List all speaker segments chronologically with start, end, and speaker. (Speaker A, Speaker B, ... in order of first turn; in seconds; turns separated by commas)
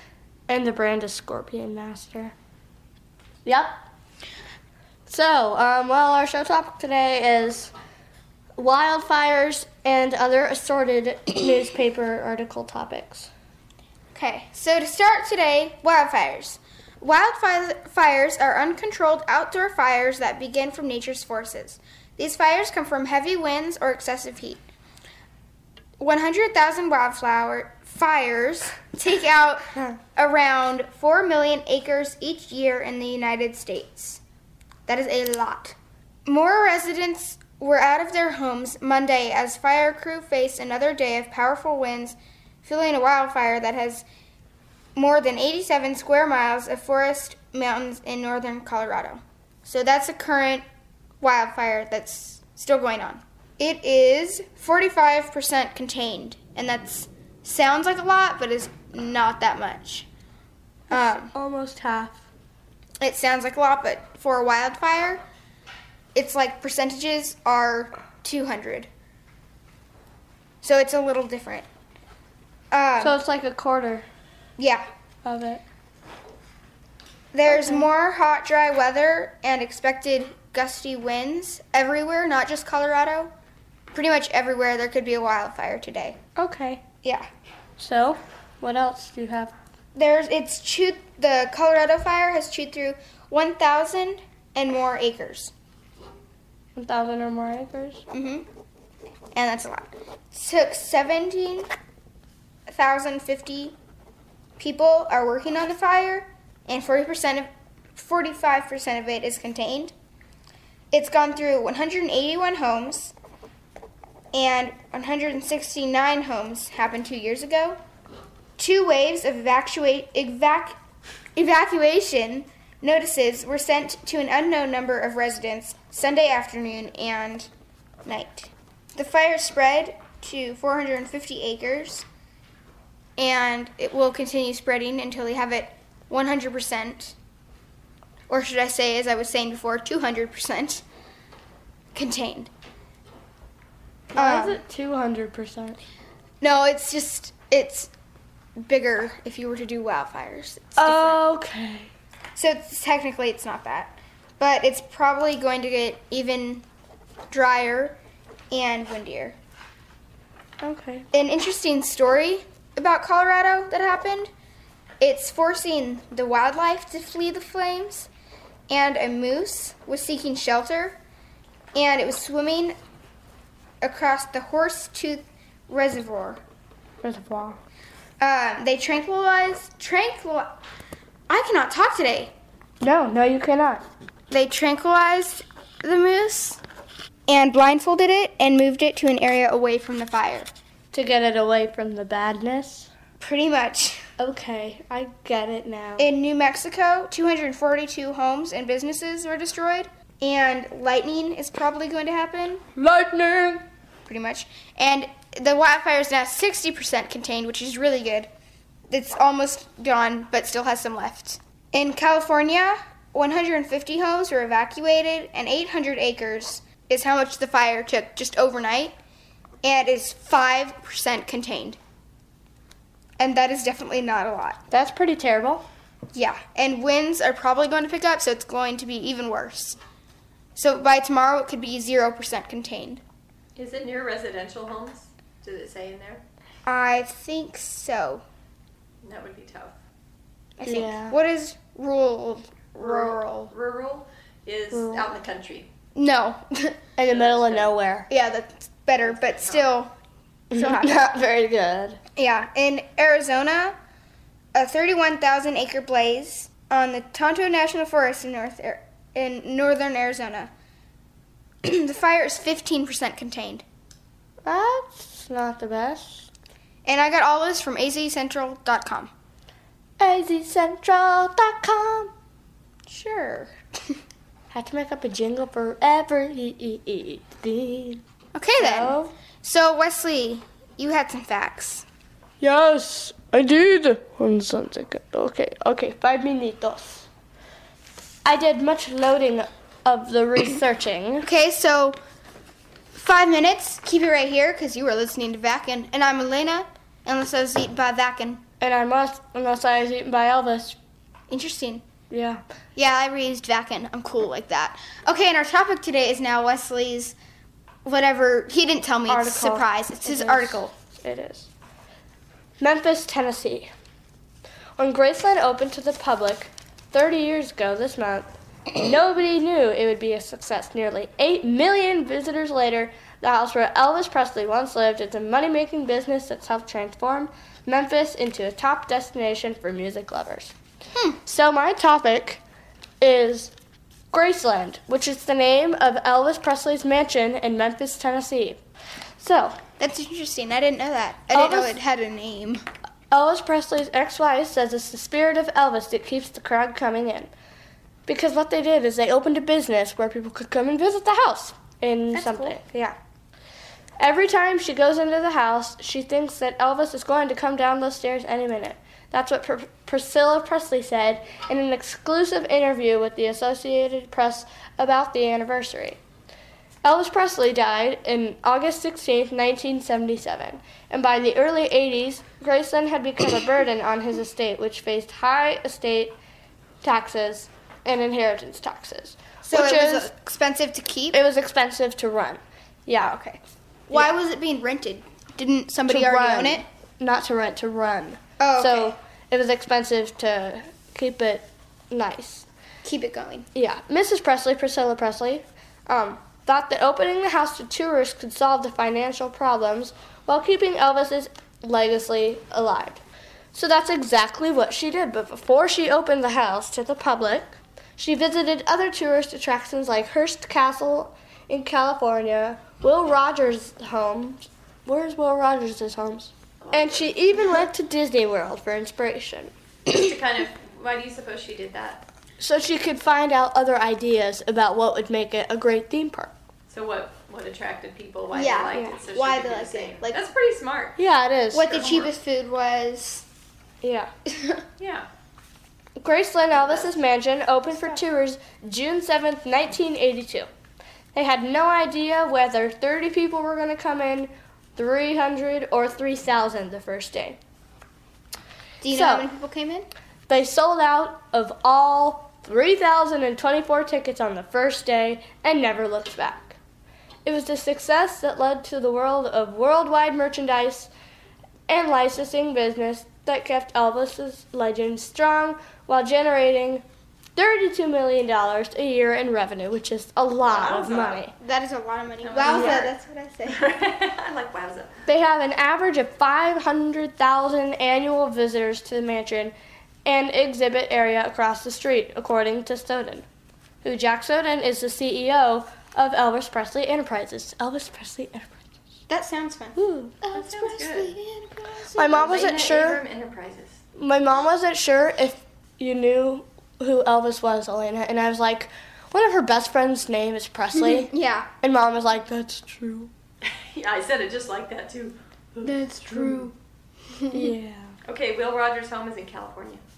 Speaker A: 0.5-2.3, Speaker A: 3.5-3.8, Speaker A: 5.1-7.7, Speaker A: 8.6-13.3, Speaker B: 14.1-24.6, Speaker B: 26.0-34.2, Speaker B: 34.9-44.0, Speaker B: 45.0-50.6, Speaker B: 51.2-60.1, Speaker B: 60.9-61.3, Speaker A: 60.9-62.2, Speaker B: 63.0-65.2, Speaker B: 66.2-68.9, Speaker B: 70.6-71.7, Speaker B: 72.7-73.2, Speaker A: 73.0-74.1, Speaker B: 74.6-74.8, Speaker A: 75.2-75.6, Speaker B: 77.3-83.3, Speaker A: 77.5-77.9, Speaker B: 83.9-86.2, Speaker A: 86.4-86.8, Speaker B: 87.0-87.3, Speaker A: 87.8-89.5, Speaker B: 90.0-95.5, Speaker A: 96.8-98.0, Speaker B: 98.1-98.5, Speaker B: 99.3-101.7, Speaker B: 102.7-103.8, Speaker B: 104.6-109.9, Speaker B: 110.9-113.1, Speaker B: 114.3-117.8, Speaker B: 118.6-120.8, Speaker B: 121.4-127.5, Speaker B: 128.1-132.1, Speaker B: 133.2-137.2, Speaker B: 138.3-140.8, Speaker B: 141.9-142.5, Speaker A: 144.1-145.8, Speaker B: 144.2-144.6, Speaker B: 146.4-147.9, Speaker B: 148.6-151.2, Speaker A: 150.8-151.9, Speaker B: 152.3-156.7, Speaker B: 157.3-158.0, Speaker B: 158.5-159.4, Speaker A: 160.6-161.1, Speaker B: 161.1-164.3, Speaker B: 165.0-168.1, Speaker B: 168.7-171.0, Speaker B: 171.8-172.8, Speaker B: 173.8-176.4, Speaker A: 177.0-177.6, Speaker B: 178.2-180.5, Speaker B: 181.3-182.3, Speaker A: 182.8-183.8, Speaker B: 184.3-186.6, Speaker B: 187.3-190.5, Speaker A: 190.9-192.9, Speaker B: 193.2-194.1, Speaker A: 194.2-196.1, Speaker B: 196.0-202.6, Speaker A: 202.8-203.6, Speaker B: 204.1-208.3, Speaker B: 208.9-218.9, Speaker B: 219.6-221.8, Speaker B: 223.2-224.6, Speaker A: 224.7-225.6, Speaker B: 226.1-229.8, Speaker B: 230.6-233.0, Speaker C: 233.6-236.2, Speaker B: 236.7-238.2, Speaker C: 239.0-239.8, Speaker B: 240.6-243.5, Speaker A: 240.6-241.2, Speaker C: 242.8-245.7, Speaker A: 244.7-245.1, Speaker B: 245.9-246.8, Speaker A: 247.0-248.1, Speaker C: 247.1-247.7, Speaker B: 248.1-249.9, Speaker C: 249.0-249.7, Speaker A: 250.5-252.0, Speaker B: 250.5-251.0, Speaker B: 252.2-253.8, Speaker B: 254.5-260.5, Speaker B: 261.6-263.6, Speaker A: 264.4-266.3, Speaker B: 266.9-269.1, Speaker A: 270.0-272.1, Speaker B: 272.9-273.5, Speaker A: 274.5-278.0, Speaker B: 278.4-281.9, Speaker A: 278.6-279.1, Speaker A: 282.4-287.1, Speaker A: 288.2-291.3, Speaker B: 291.2-292.0, Speaker B: 292.9-298.4, Speaker A: 298.6-300.8, Speaker B: 301.3-301.8, Speaker A: 302.1-302.4, Speaker B: 302.8-307.2, Speaker B: 307.9-310.7, Speaker A: 309.1-311.5, Speaker A: 312.6-313.7, Speaker A: 314.8-330.5, Speaker A: 331.2-332.4, Speaker A: 333.0-333.5, Speaker A: 334.1-338.6, Speaker A: 339.2-339.6, Speaker B: 339.8-342.6, Speaker A: 341.3-341.8, Speaker A: 343.1-347.3, Speaker A: 348.1-353.0, Speaker B: 352.1-352.6, Speaker A: 354.0-366.0, Speaker A: 366.8-376.1, Speaker A: 376.8-380.1, Speaker B: 379.4-381.2, Speaker A: 381.1-383.2, Speaker B: 383.0-386.6, Speaker A: 385.9-392.5, Speaker B: 388.4-388.9, Speaker B: 392.8-393.5, Speaker A: 393.6-403.0, Speaker A: 403.5-419.5, Speaker C: 419.9-422.1, Speaker A: 422.4-426.3, Speaker C: 426.7-431.0, Speaker B: 428.3-430.2, Speaker A: 431.0-431.8, Speaker B: 431.5-433.2, Speaker C: 431.7-432.1, Speaker A: 433.8-434.1, Speaker C: 434.8-435.1, Speaker A: 436.0-440.5, Speaker A: 441.1-447.4, Speaker B: 448.8-449.9, Speaker A: 448.9-449.3, Speaker A: 450.3-456.6, Speaker A: 457.2-460.9, Speaker A: 461.7-466.8, Speaker A: 467.4-471.3, Speaker C: 470.5-471.2, Speaker B: 471.4-473.6, Speaker C: 472.2-472.9, Speaker A: 472.4-472.9, Speaker C: 473.5-475.1, Speaker A: 475.1-479.5, Speaker A: 480.1-483.2, Speaker A: 483.8-488.6, Speaker B: 489.1-491.9, Speaker A: 489.8-490.2, Speaker C: 490.3-493.8, Speaker A: 492.0-493.0, Speaker A: 494.0-503.1, Speaker B: 500.8-501.5, Speaker C: 503.4-506.5, Speaker A: 505.7-506.5, Speaker B: 505.9-506.5, Speaker A: 507.3-507.9, Speaker C: 508.1-509.8